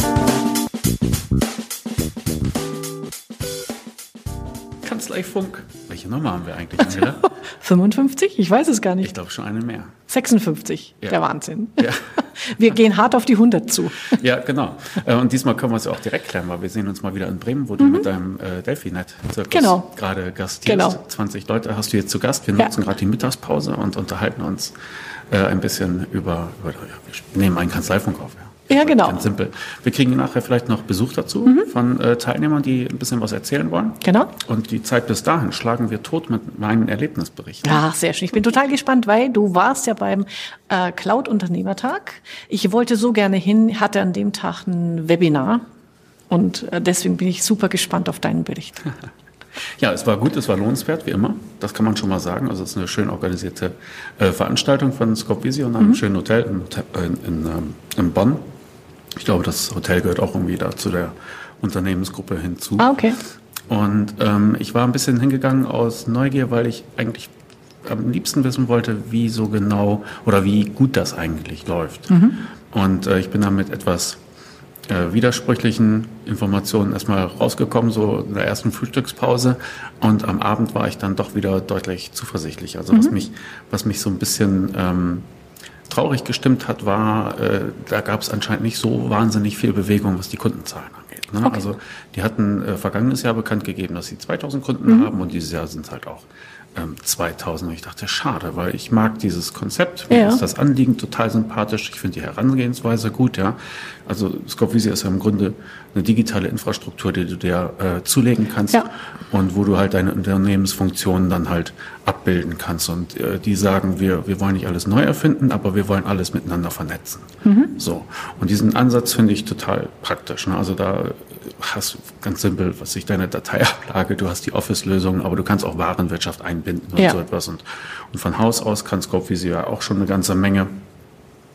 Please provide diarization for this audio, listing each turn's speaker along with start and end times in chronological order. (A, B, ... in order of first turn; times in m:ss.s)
0:04.8-0:07.3 A
0:06.8-0:09.1 B
0:09.0-0:09.9 A
0:10.1-0:14.2 B
0:11.8-0:12.1 A
0:14.1-0:24.7 A
0:17.8-0:18.1 B
0:19.5-0:19.9 B
0:20.6-0:21.0 B
0:25.3-0:37.8 A
0:28.7-0:29.2 B
0:34.0-0:34.3 B
0:37.6-0:45.6 B
0:46.3-0:48.8 B
0:49.8-0:58.5 A
0:59.2-1:02.9 A
1:02.8-1:03.2 B
1:03.7-1:07.3 A
1:07.8-1:12.2 A
1:12.1-1:12.4 B
1:12.7-1:14.2 A
1:14.9-1:25.3 A
1:25.9-2:10.8 A
1:40.1-1:40.4 B
1:57.4-1:57.7 B